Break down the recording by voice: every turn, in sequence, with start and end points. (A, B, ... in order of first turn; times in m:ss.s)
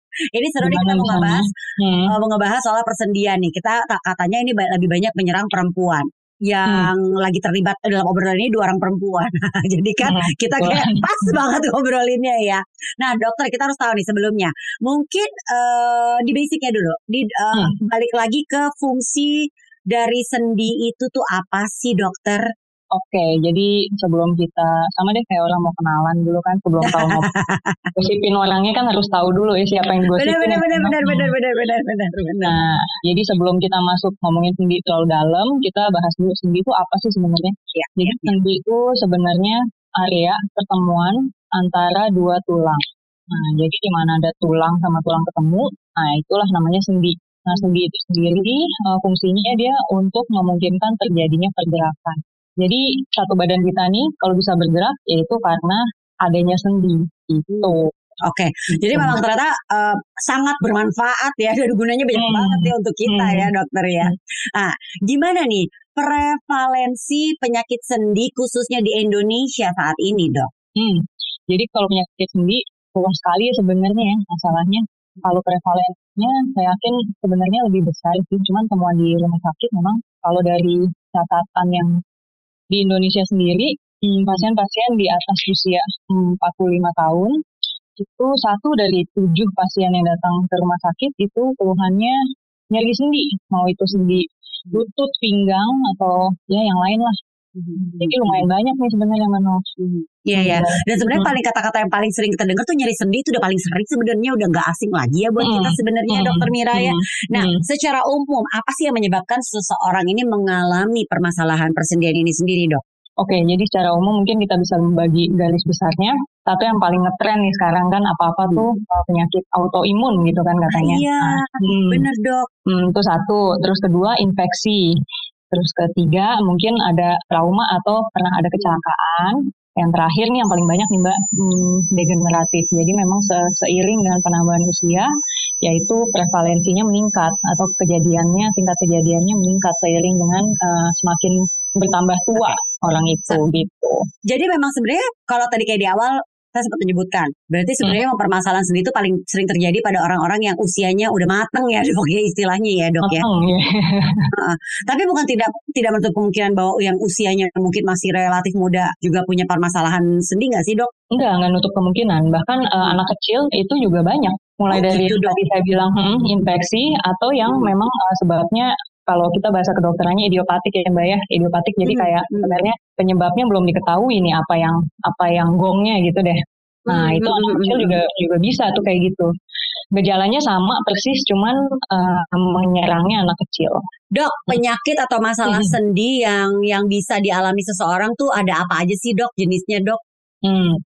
0:00.3-0:01.5 A
0:00.6-0:02.1 B
0:02.1-0:19.4 A
0:06.6-0:06.9 B
0:10.0-0:11.0 B
0:19.9-0:22.4 A
0:22.9-0:27.3 B
0:26.8-0:27.9 A
0:27.9-0:31.3 B
0:30.1-0:32.6 A
0:32.4-0:57.9 B
0:37.7-0:38.3 A
0:57.5-1:10.5 A
0:58.9-0:59.2 B
1:02.1-1:03.5 B
1:10.8-1:22.0 B
1:22.7-1:27.4 B
1:28.0-1:32.2 B
1:32.7-1:37.2 B
1:37.6-1:38.4 A
1:37.8-1:39.6 B
1:39.8-1:52.8 A
1:40.3-1:41.3 B
1:45.4-1:47.6 B
1:53.2-2:02.0 B
2:00.7-2:02.5 A
2:02.6-2:04.9 B
2:05.5-2:15.1 B
2:15.6-2:24.0 B
2:24.3-2:33.2 A
2:33.0-2:34.3 B
2:34.4-2:40.9 A
2:41.1-2:59.3 B
2:44.7-2:45.4 A
2:47.4-2:47.7 A
2:51.8-2:52.5 A
2:56.9-2:57.9 A
2:59.9-3:03.8 B
3:04.1-3:10.0 A
3:05.5-3:05.7 B
3:10.4-3:10.8 B